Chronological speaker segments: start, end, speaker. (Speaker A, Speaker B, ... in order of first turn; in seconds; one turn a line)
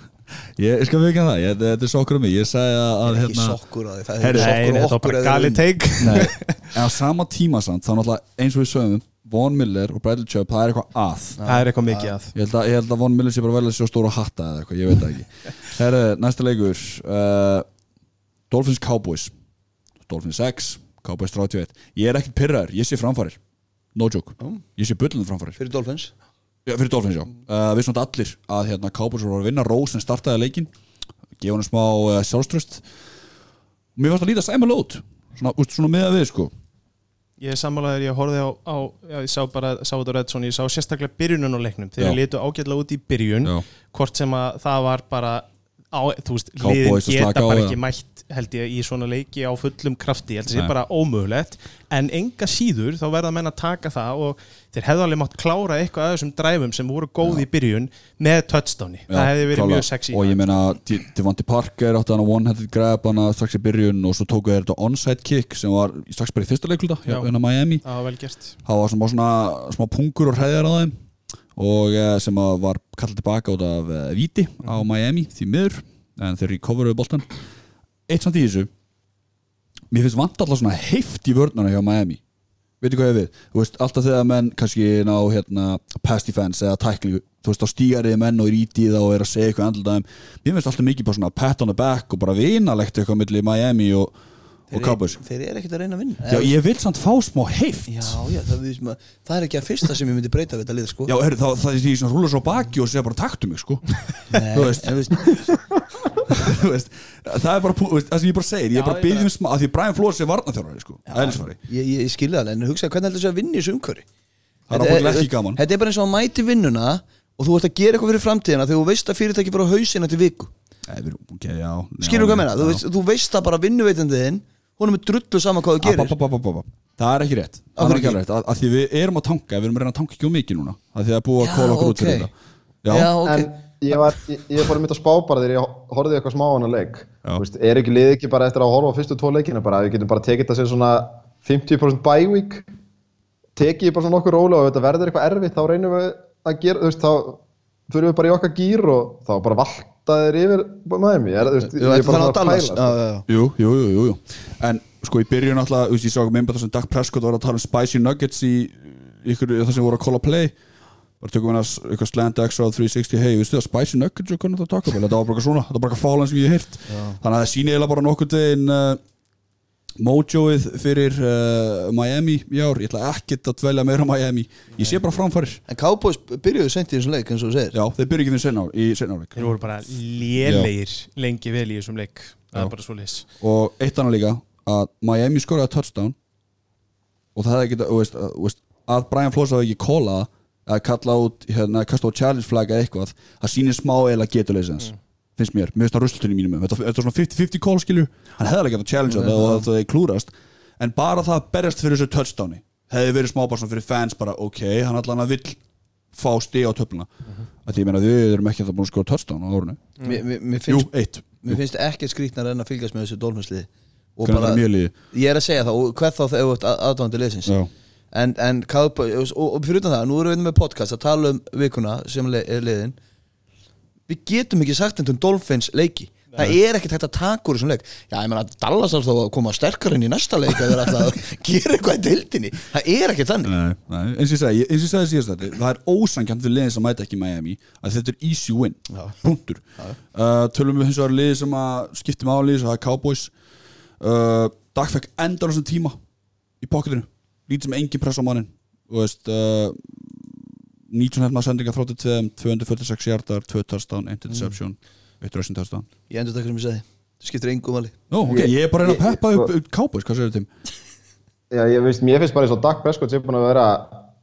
Speaker A: 0.6-3.6
Speaker B: 3.0-5.6
Speaker A: 4.2-4.6
Speaker C: 4.4-6.7
Speaker A: 6.0-11.4
Speaker B: 11.4-12.1
Speaker C: 11.4-12.3
Speaker A: 12.3-17.6
Speaker A: 18.5-19.3
Speaker A: 20.0-23.4
Speaker A: 23.9-25.6
Speaker B: 25.6-26.1
Speaker A: 26.6-30.7
Speaker A: 31.4-32.8
Speaker A: 34.0-36.5
Speaker C: 37.4-60.5
Speaker A: 46.6-47.8
Speaker A: 59.1-67.8
Speaker C: 67.8-68.5
Speaker A: 68.6-70.9
Speaker A: 71.5-77.3
Speaker A: 78.1-78.7
Speaker A: 79.9-82.2
Speaker A: 82.8-94.1
Speaker A: 94.7-95.2
Speaker B: 94.7-96.5
Speaker A: 96.3-98.2
Speaker B: 97.9-101.1
Speaker A: 101.1-105.4
Speaker B: 104.3-105.4
Speaker A: 106.2-111.6
Speaker B: 111.1-114.0
Speaker A: 114.7-115.6
Speaker B: 114.7-120.5
Speaker A: 120.9-122.8
Speaker B: 122.0-126.1
Speaker A: 125.8-132.3
Speaker B: 127.8-128.2
Speaker B: 131.4-132.3
Speaker A: 132.8-133.1
Speaker B: 132.9-134.2
Speaker D: 133.2-142.7
Speaker D: 143.6-152.9
Speaker B: 151.6-153.2
Speaker A: 153.3-160.5
Speaker A: 161.2-169.0
Speaker B: 166.9-167.2
Speaker A: 170.0-175.6
Speaker B: 175.7-177.8
Speaker A: 177.7-179.5
Speaker C: 179.4-183.2
Speaker A: 180.4-180.7
Speaker A: 183.4-186.1
Speaker A: 187.3-205.6
Speaker B: 199.1-199.7
Speaker A: 206.1-207.1
Speaker A: 207.6-209.9
Speaker B: 210.0-210.9
Speaker A: 210.7-211.6
Speaker B: 211.4-217.5
Speaker A: 214.2-214.9
Speaker A: 217.4-217.7
Speaker B: 218.1-223.0
Speaker B: 224.1-233.5
Speaker A: 233.4-239.6
Speaker B: 238.9-239.2
Speaker A: 240.1-243.3
Speaker A: 244.0-246.0
Speaker A: 246.6-255.9
Speaker B: 256.1-257.9
Speaker A: 258.1-260.5
Speaker D: 258.2-259.5
Speaker D: 261.5-264.0